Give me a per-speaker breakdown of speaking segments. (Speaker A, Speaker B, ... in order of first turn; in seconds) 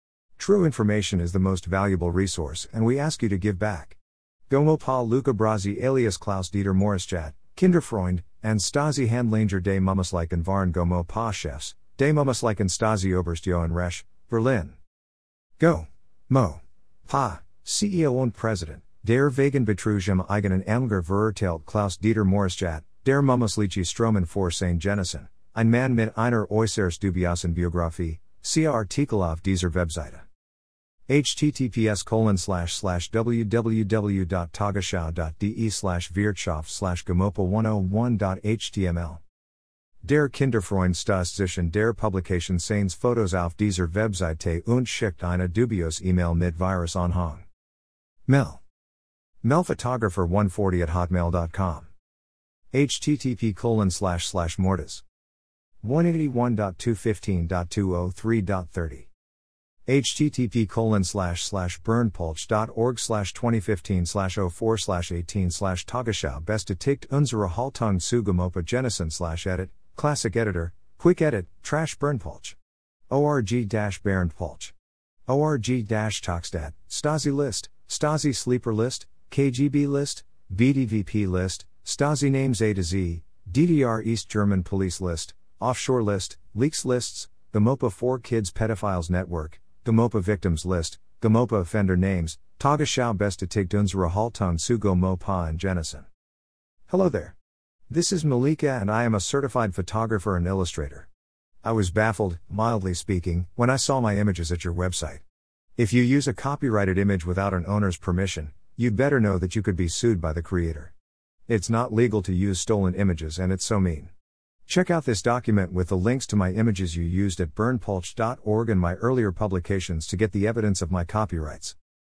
Speaker A: 0.4-4.0, 4.5-14.8, 15.6-30.2, 31.1-39.2, 40.0-47.5, 48.3-48.6, 49.4-51.9, 52.7-55.0, 55.8-59.1, 59.9-72.6, 73.1-74.7, 75.3-96.1, 96.9-97.4, 97.9-101.1, 101.6-105.2, 105.8-110.9, 111.5-114.1, 114.7-121.8